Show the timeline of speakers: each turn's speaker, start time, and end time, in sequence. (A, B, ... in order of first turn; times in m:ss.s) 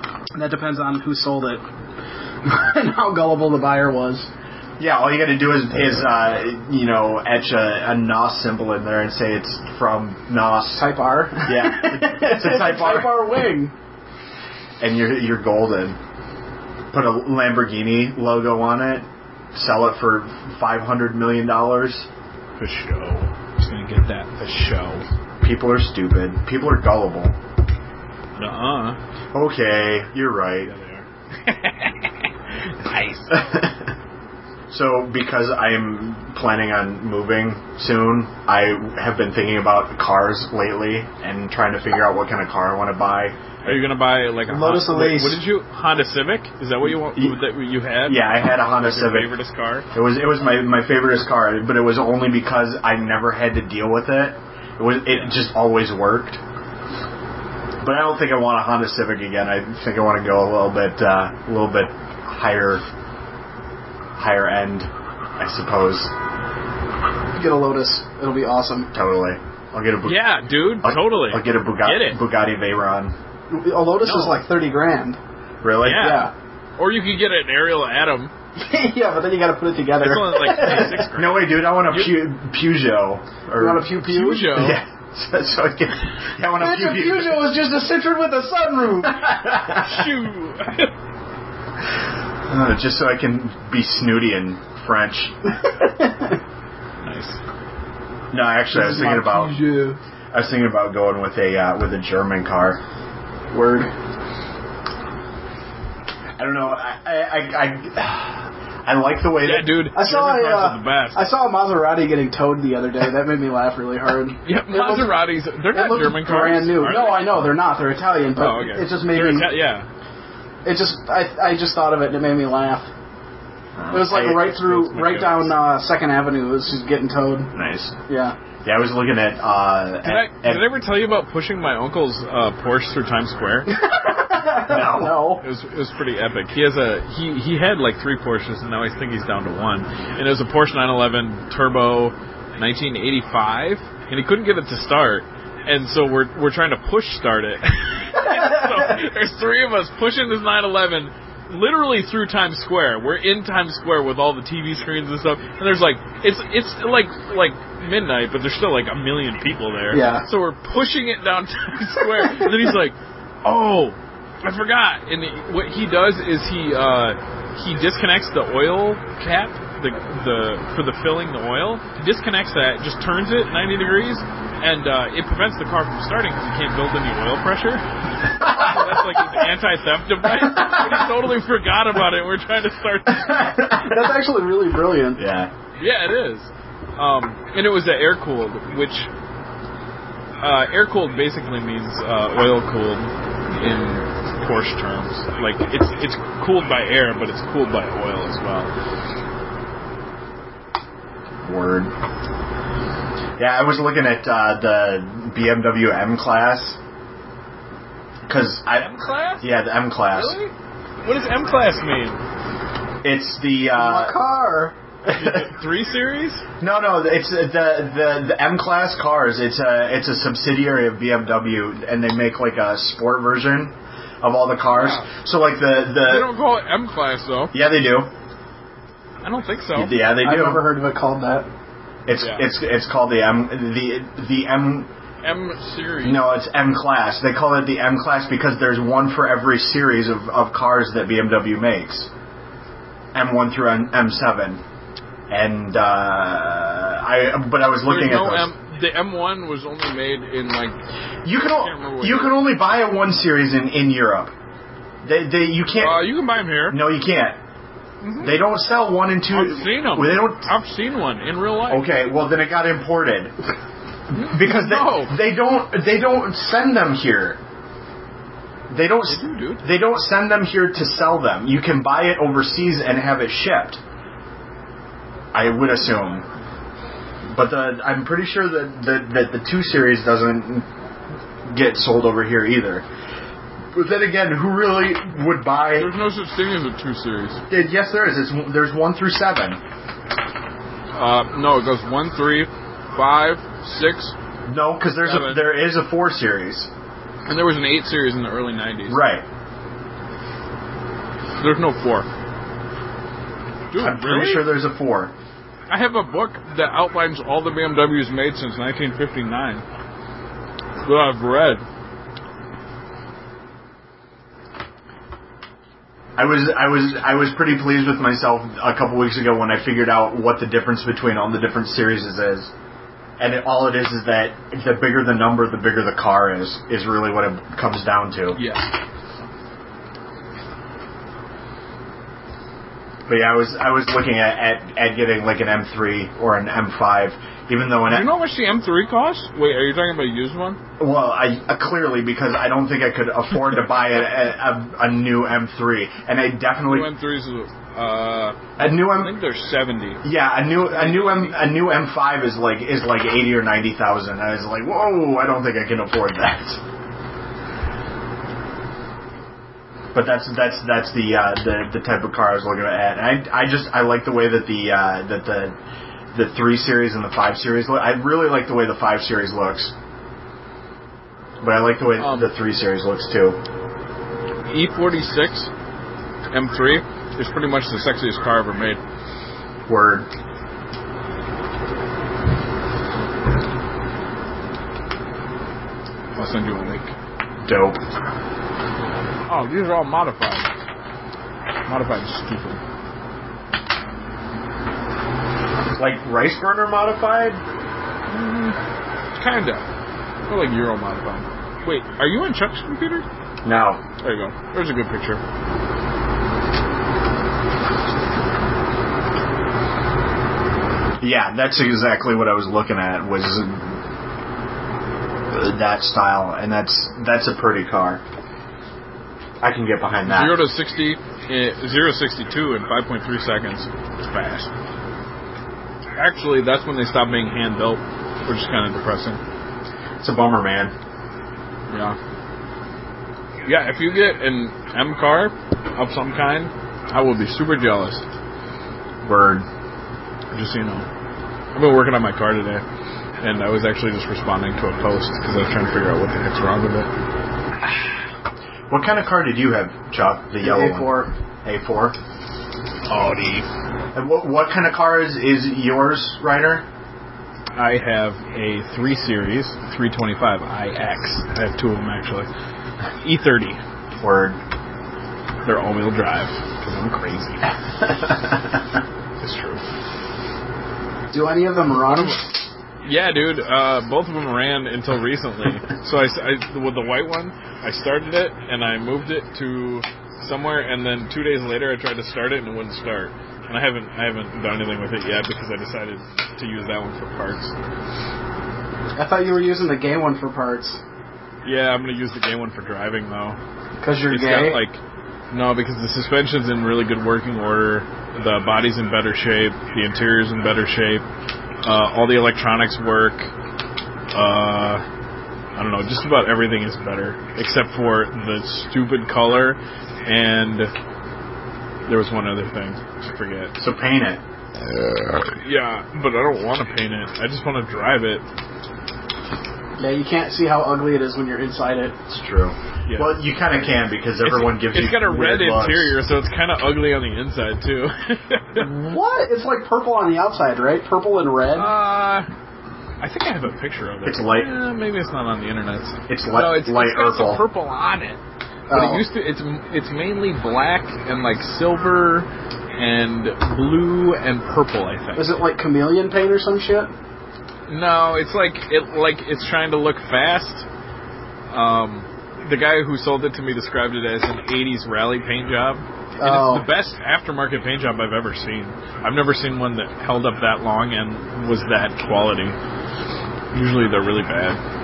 0:00.3-0:01.6 A
0:02.4-0:04.3 A
0:04.8-0:10.9 B
0:10.8-0:13.7 A
0:11.4-0:13.3 B
0:14.8-0:16.0 B
0:16.9-0:22.1 B
0:22.6-0:25.0 C
0:25.4-0:27.4 B
0:28.4-0:29.0 C
0:29.3-0:30.7 B
0:30.7-0:32.1 C
0:32.7-0:33.5 C
0:33.3-0:33.9 B
0:34.7-0:43.8 B
0:43.6-0:49.8 C
0:44.5-0:45.4 A
0:47.0-0:47.4 B
0:48.0-0:49.3 B
0:49.9-0:56.4 B
0:57.8-1:02.8 B
1:04.2-1:06.1 B
1:07.4-1:08.9 A
1:08.9-1:13.2 B
1:10.0-1:12.2 C
1:13.5-1:15.2 A
1:14.0-1:14.4 C
1:15.6-1:16.2 B
1:15.8-1:18.3 C
1:15.9-1:16.3 A
1:18.6-1:21.0 A
1:20.0-1:22.2 C
1:20.6-1:23.9 B
1:23.6-1:24.6 A
1:24.0-1:24.8 C
1:24.5-1:27.5 B
1:26.6-1:29.3 A
1:29.1-1:30.0 B
1:29.7-1:30.9 C
1:32.5-1:35.4 B
1:37.0-1:37.4 C
1:38.3-1:39.6 B
1:38.7-1:40.0 A
1:40.3-1:42.8 B
1:43.5-1:43.9 A
1:46.4-1:49.8 B
1:49.4-1:51.2 C
1:49.9-1:59.5 A
1:54.4-1:57.4 C
1:58.4-1:59.9 C
2:00.6-2:02.9 A
2:03.8-2:04.5 B
2:03.9-2:07.5 A
2:04.3-2:05.5 C
2:07.5-2:08.0 B
2:08.1-2:08.4 A
2:08.6-2:10.6 B
2:10.0-2:13.7 C
2:13.7-2:15.4 A
2:14.7-2:15.2 B
2:15.4-3:03.6 C
2:39.9-2:40.2 A
2:58.4-2:58.8 B
3:03.2-3:04.1 B
3:03.8-3:05.2 A
3:05.2-3:05.5 B
3:05.8-3:09.1 C
3:10.4-3:18.7 C
3:21.4-3:21.9 B
3:23.4-3:26.8 B
3:28.3-3:30.4 B
3:28.7-3:29.5 C
3:30.1-3:32.2 C
3:33.0-3:34.2 B
3:33.7-3:34.8 A
3:35.0-3:36.4 C
3:35.1-3:35.5 B
3:36.6-3:46.3 B
3:44.7-3:45.1 C
3:46.0-3:47.5 C
3:47.5-3:48.1 B
3:49.2-3:49.9 C
3:49.7-3:50.6 B
3:50.2-3:51.5 A
3:52.0-3:54.9 B
3:52.2-3:52.4 C
3:55.2-3:56.3 C
3:56.0-4:02.1 B
4:03.1-4:04.6 B
4:05.3-4:08.5 B
4:07.8-4:10.8 C
4:11.2-4:14.3 B
4:11.4-4:12.4 C
4:15.0-4:16.1 B
4:15.8-4:16.8 C
4:16.7-4:17.4 B
4:18.0-4:18.4 C
4:18.2-4:20.4 B
4:19.3-4:21.8 C
4:21.7-4:23.3 B
4:24.1-4:27.4 B
4:24.1-4:25.1 C
4:28.7-4:33.8 B
4:29.1-4:29.6 C
4:35.3-4:36.2 B
4:37.3-4:40.7 B
4:41.5-4:42.8 B
4:43.7-4:46.0 B
4:45.7-4:47.4 C
4:47.5-4:49.6 B
4:50.9-4:54.1 C
4:54.5-4:56.7 B
4:55.0-4:55.5 C
4:57.2-4:59.0 C
4:58.9-4:59.2 B
5:01.4-5:02.1 C
5:03.7-5:04.5 C
5:03.8-5:05.1 B
5:05.7-5:09.6 C
5:10.8-5:11.6 C
5:16.2-5:22.5 B
5:23.2-5:28.4 B
5:28.4-5:28.7 C
5:33.1-5:38.1 B
5:37.9-5:40.6 C
5:40.8-5:46.9 B
5:46.7-5:50.0 C
5:48.6-5:49.1 B
5:50.0-5:56.6 B
5:50.7-5:51.4 C
5:59.9-6:05.6 B
6:06.1-6:09.7 B
6:11.4-6:13.4 B
6:12.0-6:12.3 C
6:14.5-6:15.5 C
6:16.3-6:18.8 C
6:19.7-6:20.1 B
6:26.1-6:26.9 C
6:27.4-6:27.8 B
6:29.3-6:30.5 C
6:31.7-6:32.6 C
6:35.7-6:37.4 B
6:38.1-6:38.6 C
6:39.2-6:39.6 C
6:40.3-6:43.0 C
6:43.4-6:43.8 B
6:44.0-6:45.2 C
6:51.0-6:53.8 B
6:55.3-6:58.0 B
6:59.4-7:00.4 B
7:00.0-7:04.5 C
7:06.0-7:09.2 C
7:10.0-7:10.7 B
7:11.7-7:12.0 C
7:13.4-7:18.0 C
7:19.0-7:19.5 B
7:20.3-7:20.9 C
7:21.5-7:22.6 C
7:23.2-7:26.9 C
7:28.7-7:32.0 B
7:30.4-7:31.1 A
7:32.9-7:33.5 C
7:33.9-7:36.6 B
7:37.5-7:42.3 C
7:43.0-7:43.6 C
7:44.0-7:44.4 B
7:45.4-7:47.5 C
7:47.9-7:48.4 B
7:49.2-7:49.6 C
7:51.1-7:52.2 A
7:52.8-8:07.5 C
8:09.0-8:10.8 A
8:11.4-8:13.4 C
8:13.8-8:14.6 A
8:14.1-8:14.8 C
8:15.3-8:21.0 C
8:21.6-8:23.3 C
8:24.1-8:24.8 C
8:25.6-8:30.7 C
8:31.9-8:33.6 C
8:33.6-8:34.2 B
8:35.2-8:38.2 C
8:39.8-8:42.0 A
8:42.1-8:46.0 B
8:42.8-8:43.2 C
8:44.2-8:48.6 C
8:48.5-8:51.7 A
8:51.6-8:52.3 C
8:53.0-8:58.2 C
8:54.0-8:54.5 B
8:56.1-8:57.4 B
8:58.7-8:59.0 A
8:58.7-9:05.4 C
9:05.2-9:06.9 A
9:07.7-9:10.6 C
9:11.5-9:22.6 C
9:16.2-9:16.7 A
9:23.5-9:24.6 C